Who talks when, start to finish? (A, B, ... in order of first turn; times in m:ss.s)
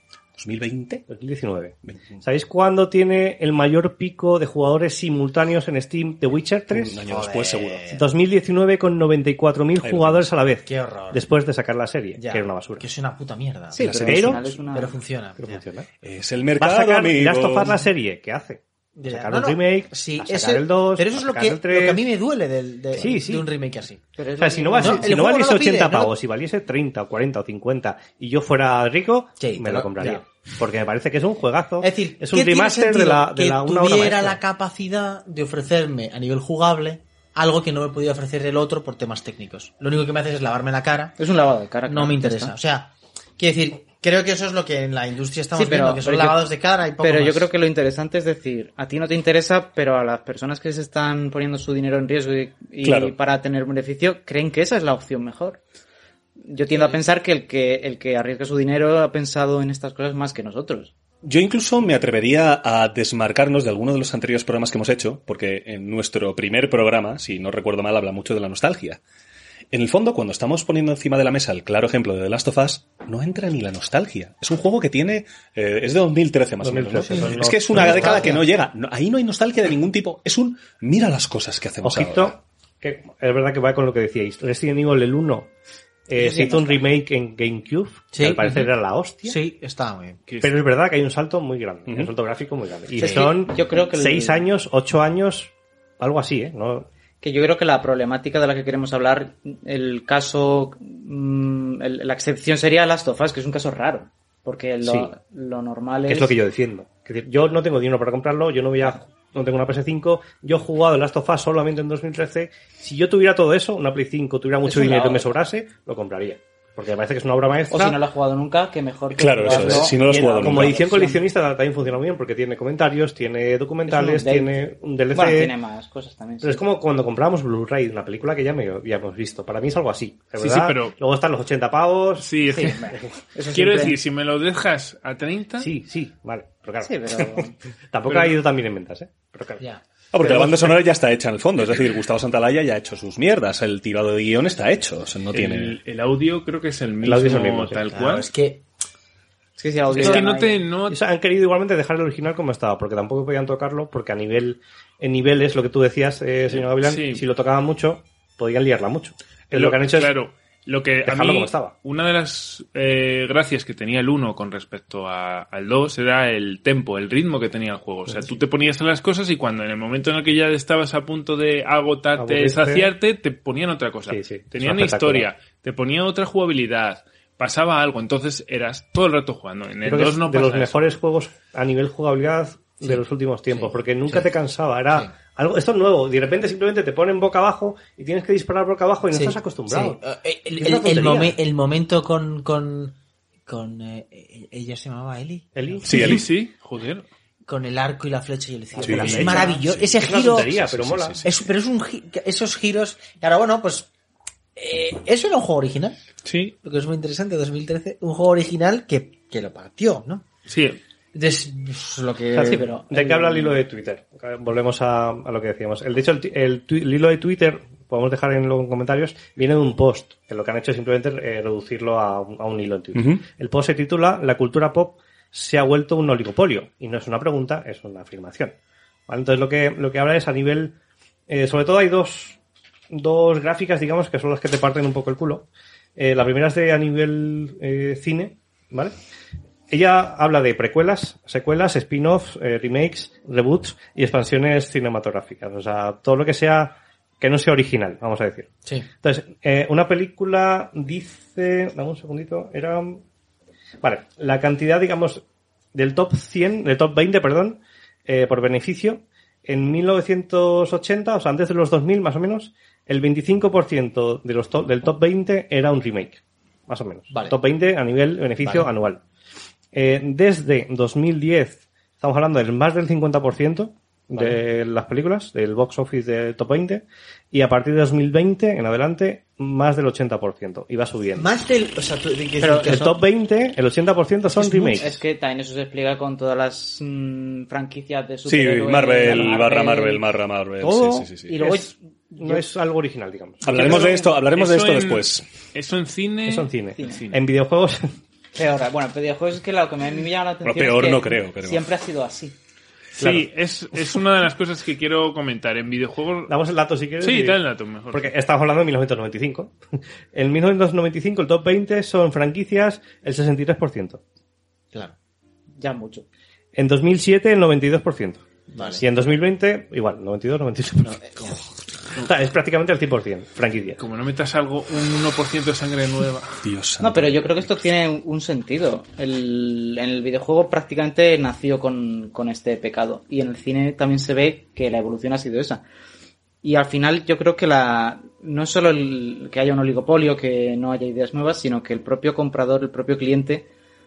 0:00.4-0:01.0 A
0:01.1-0:07.0 B
0:01.8-0:02.2 A
0:06.7-0:07.9 A
0:06.9-0:08.1 C
0:07.9-0:12.8 B
0:09.8-0:10.3 A
0:10.6-0:11.3 C
0:12.2-0:15.6 C
0:13.7-0:15.0 D
0:13.8-0:14.3 A
0:13.8-0:14.4 B
0:15.4-0:15.9 B
0:16.0-0:17.8 A
0:16.6-0:22.0 B
0:19.0-0:24.0 C
0:23.0-0:23.5 B
0:24.2-0:25.1 D
0:24.4-0:34.4 B
0:24.8-0:26.1 C
0:29.4-0:30.2 C
0:31.8-0:41.2 C
0:41.2-0:42.5 D
0:41.9-0:47.5 C
0:45.6-0:55.6 D
0:52.8-0:53.2 A
0:56.4-1:00.9 D
1:01.2-1:09.0 A
1:09.7-1:22.4 A
1:16.6-1:18.4 B
1:17.2-1:18.4 C
1:21.8-1:25.5 B
1:26.1-1:29.4 B
1:26.1-1:26.9 D
1:28.1-1:28.7 C
1:29.2-1:30.2 C
1:30.3-1:30.6 E
1:30.4-1:36.9 B
1:33.0-1:34.5 D
1:37.2-1:46.4 D
1:44.8-1:45.1 B
1:46.1-1:58.0 B
1:54.7-1:55.4 D
1:57.7-2:01.2 D
1:59.1-2:01.0 A
1:59.5-2:05.5 B
2:03.8-2:04.5 D
2:05.1-2:06.6 D
2:06.4-2:12.3 B
2:10.4-2:11.0 E
2:12.2-2:13.0 E
2:12.5-2:14.0 D
2:12.9-2:13.1 B
2:13.5-2:15.7 E
2:15.6-2:16.9 B
2:16.8-2:17.6 D
2:17.9-2:19.7 B
2:18.1-2:18.4 E
2:20.1-2:25.8 A
2:20.2-2:20.8 B
2:25.3-2:28.3 E
2:27.0-2:27.8 B
2:27.9-2:28.6 C
2:29.6-2:30.6 D
2:29.9-2:31.0 E
2:30.0-2:30.2 B
2:30.9-2:40.1 B
2:36.6-2:37.2 E
2:39.5-3:00.9 E
2:41.0-2:41.7 B
2:52.2-2:52.9 B
2:54.1-2:55.3 B
2:59.8-3:10.0 B
3:09.1-3:15.9 C
3:10.6-3:11.4 B
3:15.6-3:16.2 B
3:15.9-3:17.1 E
3:15.9-3:16.2 A
3:17.4-3:20.5 C
3:18.7-3:21.2 B
3:18.8-3:21.3 A
3:21.2-3:23.9 C
3:24.6-3:26.0 C
3:26.2-3:26.5 E
3:26.6-3:30.2 C
3:30.5-3:30.8 E
3:31.1-3:32.7 C
3:32.4-3:33.6 D
3:32.9-3:48.6 B
3:43.0-3:43.2 A
3:49.1-3:50.8 B
3:51.3-3:52.4 B
3:52.9-3:59.0 B
3:59.7-4:08.5 B
4:09.0-4:13.0 B
4:13.8-4:15.2 B
4:15.7-4:29.0 B
4:27.1-4:27.4 C
4:29.7-4:41.3 B
4:41.2-4:43.0 C
4:42.4-4:42.7 D
4:42.6-4:45.0 B
4:44.4-4:44.9 C
4:44.8-4:50.0 D
4:48.3-4:51.4 A
4:50.6-4:51.1 C
4:51.2-4:52.5 D
4:51.4-4:53.8 B
4:53.4-4:55.3 A
4:53.4-4:57.2 E
4:56.2-4:57.9 B
4:58.4-5:02.4 D
5:00.5-5:01.7 A
5:03.0-5:06.4 E
5:03.0-5:03.3 B
5:06.3-5:07.4 B
5:07.0-5:08.1 E
5:07.9-5:09.6 B
5:10.1-5:14.0 B
5:15.6-5:16.1 D
5:16.6-5:21.4 B
5:18.5-5:18.8 C
5:21.0-5:21.4 C
5:22.0-5:23.8 B
5:23.8-5:26.4 E
5:26.4-5:27.3 A
5:26.8-5:35.6 D
5:36.4-5:43.5 D